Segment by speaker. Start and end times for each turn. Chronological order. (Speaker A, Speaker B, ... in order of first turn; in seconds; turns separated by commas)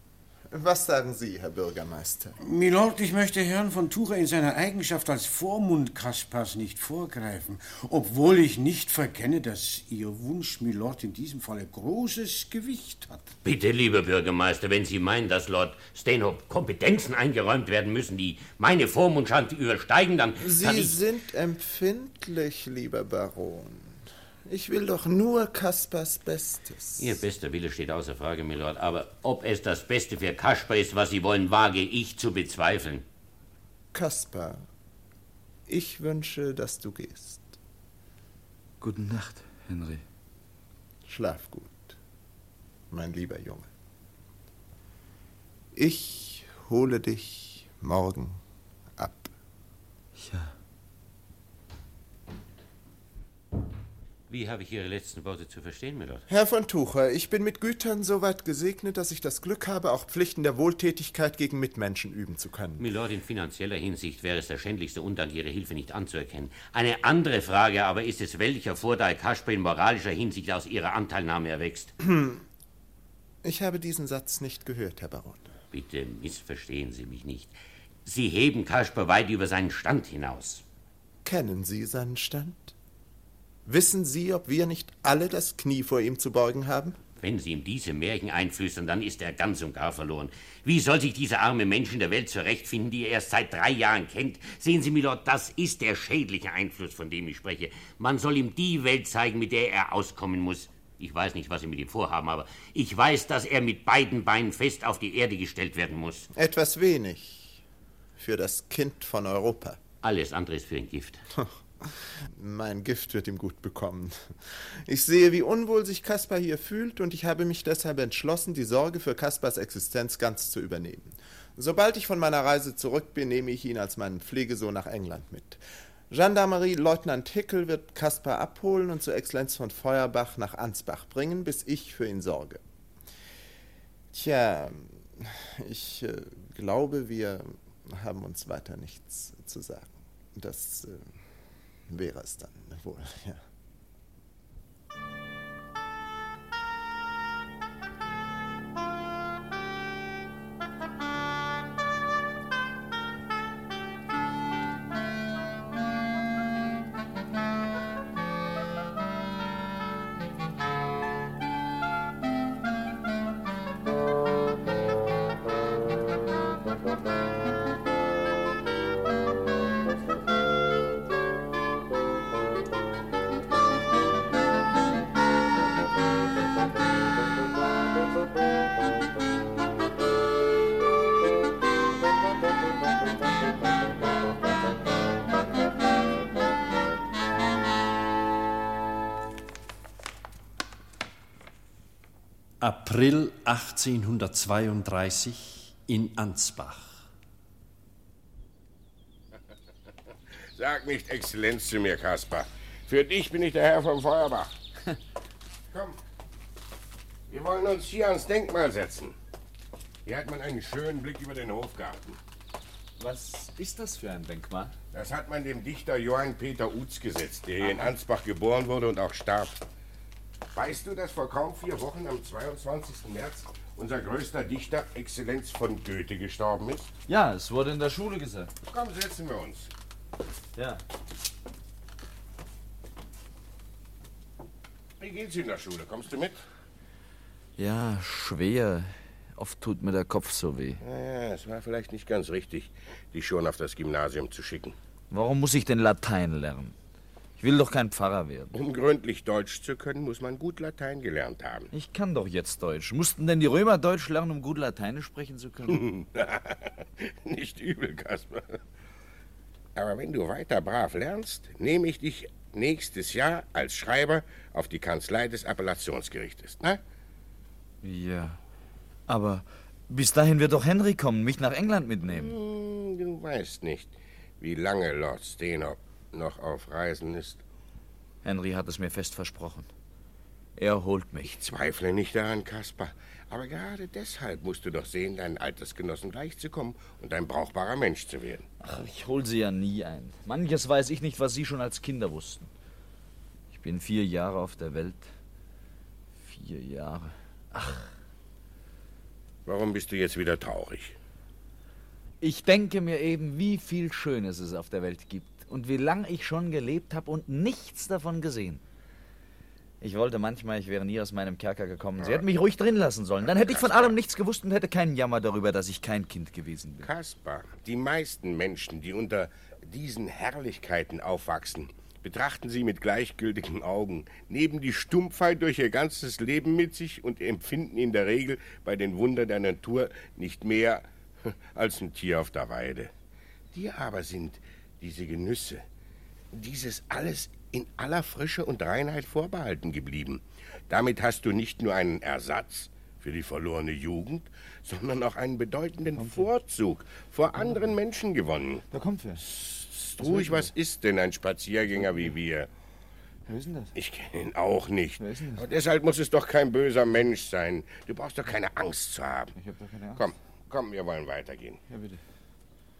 Speaker A: 0.5-2.4, Speaker B: 2.4-13.3, Speaker C: 13.4-21.0, Speaker A: 20.4-27.2, Speaker C: 27.0-33.0, Speaker A: 33.9-34.6, Speaker A: 35.7-37.5, Speaker D: 38.8-40.0, Speaker A: 41.1-42.0, Speaker A: 42.9-43.7, Speaker A: 45.7-48.4, Speaker A: 49.0-49.3, Speaker D: 50.2-50.5, Speaker C: 54.3-56.2, Speaker A: 56.3-62.9, Speaker C: 62.8-71.9, Speaker A: 72.0-72.4, Speaker A: 73.4-75.5, Speaker C: 75.7-80.6, Speaker A: 81.2-82.7, Speaker A: 83.7-87.0, Speaker C: 87.2-106.3, Speaker A: 106.3-107.6, Speaker A: 108.2-109.8, Speaker C: 110.0-111.2, Speaker A: 112.3-114.2, Speaker A: 114.9-132.6, Speaker A: 134.1-141.1, Speaker A: 141.9-143.4, Speaker E: 192.6-197.0, Speaker F: 200.5-204.5, Speaker F: 205.7-206.0, Speaker F: 207.3-209.1, Speaker F: 210.1-212.2, Speaker D: 213.0-214.7, Speaker F: 214.9-219.6, Speaker D: 217.6-217.9, Speaker F: 220.5-226.9, Speaker D: 227.1-228.5, Speaker F: 228.7-229.7, Speaker D: 230.6-230.8, Speaker F: 235.0-236.4, Speaker D: 237.6-240.8, Speaker F: 240.8-244.8, Speaker D: 245.1-246.7, Speaker D: 247.4-248.5, Speaker F: 248.5-251.7, Speaker D: 251.7-255.8, Speaker F: 255.7-258.6, Speaker F: 259.8-266.8, Speaker D: 267.8-268.4, Speaker D: 269.1-272.3, Speaker F: 272.1-277.4, Speaker D: 278.2-279.7, Speaker D: 280.6-281.4, Speaker F: 281.2-288.5, Speaker D: 288.6-292.5, Speaker D: 293.5-295.1, Speaker D: 296.2-297.9, Speaker F: 299.4-300.9, Speaker D: 302.2-308.6, Speaker D: 309.8-316.9, Speaker F: 312.0-312.3, Speaker F: 313.2-313.9, Speaker F: 316.8-332.9, Speaker F: 333.5-335.6, Speaker F: 336.3-348.6, Speaker D: 345.9-346.3, Speaker D: 348.7-349.2, Speaker F: 349.3-352.5, Speaker D: 350.0-350.5, Speaker D: 353.3-353.7, Speaker F: 353.7-359.3, Speaker D: 355.0-355.4, Speaker D: 359.4-360.1, Speaker F: 359.9-361.6, Speaker D: 361.7-362.0